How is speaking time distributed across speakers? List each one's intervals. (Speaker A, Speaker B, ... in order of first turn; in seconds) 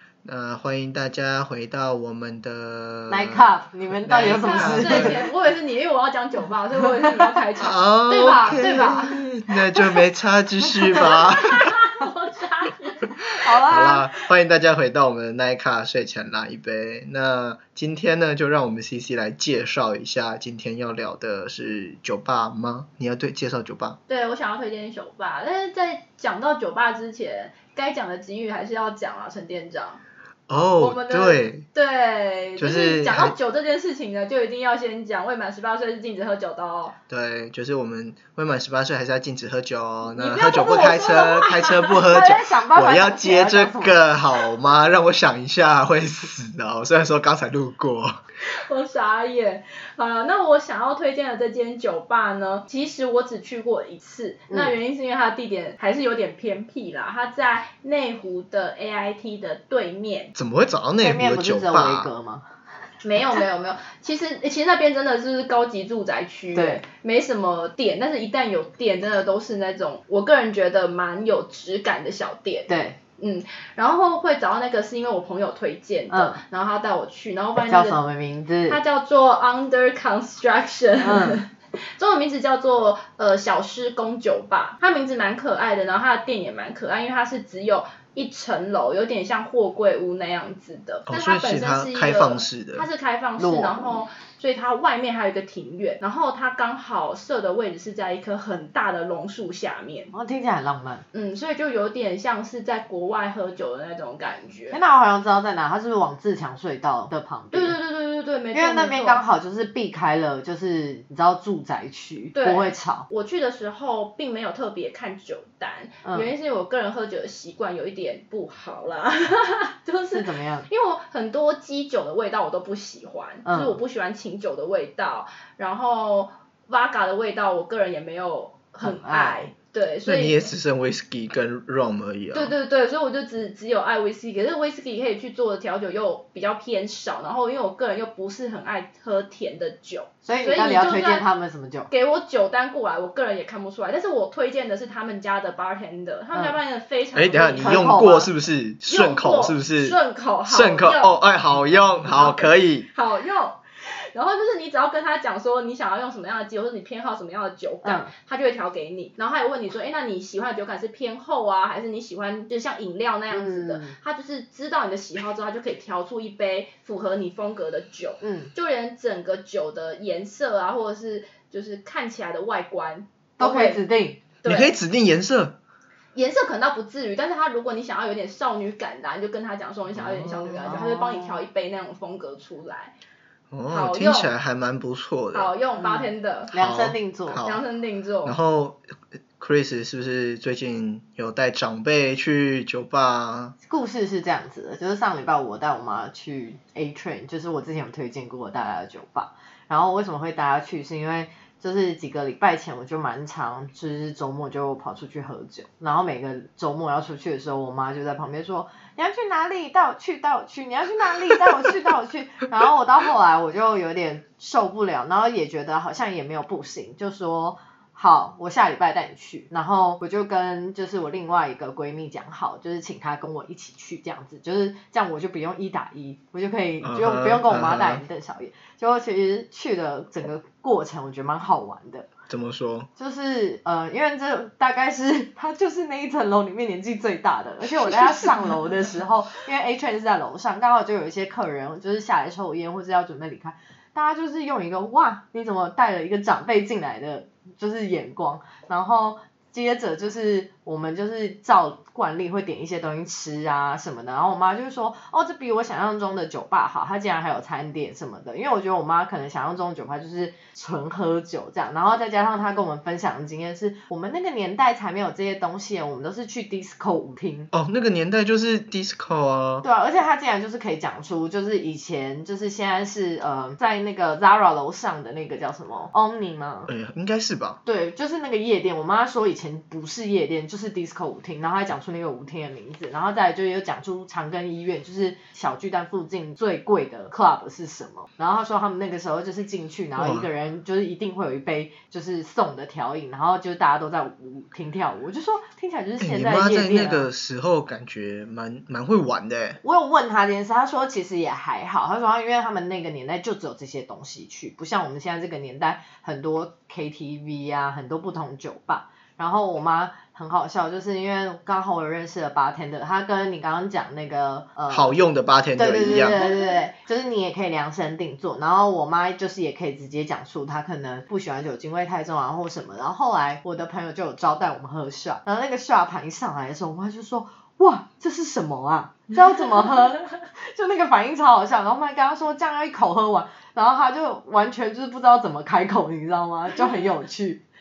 Speaker A: 0.2-5.2, 7.6-11.8, 13.6-24.0, 30.5-31.6, 32.6-33.4, 37.1-48.2, 60.4-62.1, 91.1-92.9, 130.0-132.5, 147.1-152.9, 174.4-175.6, 179.9-180.7, 183.5-185.5, 186.5-187.6, 188.2-188.8, 189.4-193.6, 226.8-228.0, 232.3-232.9, 267.5-269.6, 276.7-277.6, 290.0-290.3, 296.0-299.6, 314.7-316.2
Speaker B: 3.1-5.2, 8.1-9.2, 13.3-14.2, 42.0-44.0, 54.5-54.8, 61.0-62.5, 66.5-66.8, 72.7-73.0, 76.1-76.4, 77.6-78.8, 81.0-81.4, 93.4-94.0, 100.1-101.0, 104.7-107.8, 108.5-113.1, 116.0-116.3, 120.1-120.7, 123.4-123.8, 128.8-129.5, 140.2-141.9, 147.6-148.3, 157.8-158.1, 163.3-163.9, 168.2-168.5, 173.4-174.2, 180.6-181.4, 185.8-187.4, 193.6-232.1, 233.0-267.5, 269.6-276.7, 277.6-297.1, 299.6-315.0, 315.6-337.4
Speaker C: 4.1-9.1, 11.0-13.2, 24.1-30.0, 30.8-37.0, 40.1-42.0, 48.4-60.3, 63.0-78.0, 78.7-100.1, 101.1-104.8, 107.5-109.2, 112.3-130.4, 132.3-141.2, 141.9-147.9, 148.8-151.1, 152.0-173.8, 174.4-174.7, 176.1-182.9, 183.7-184.3, 185.3-186.5, 187.4-188.4, 315.8-316.6, 336.6-336.9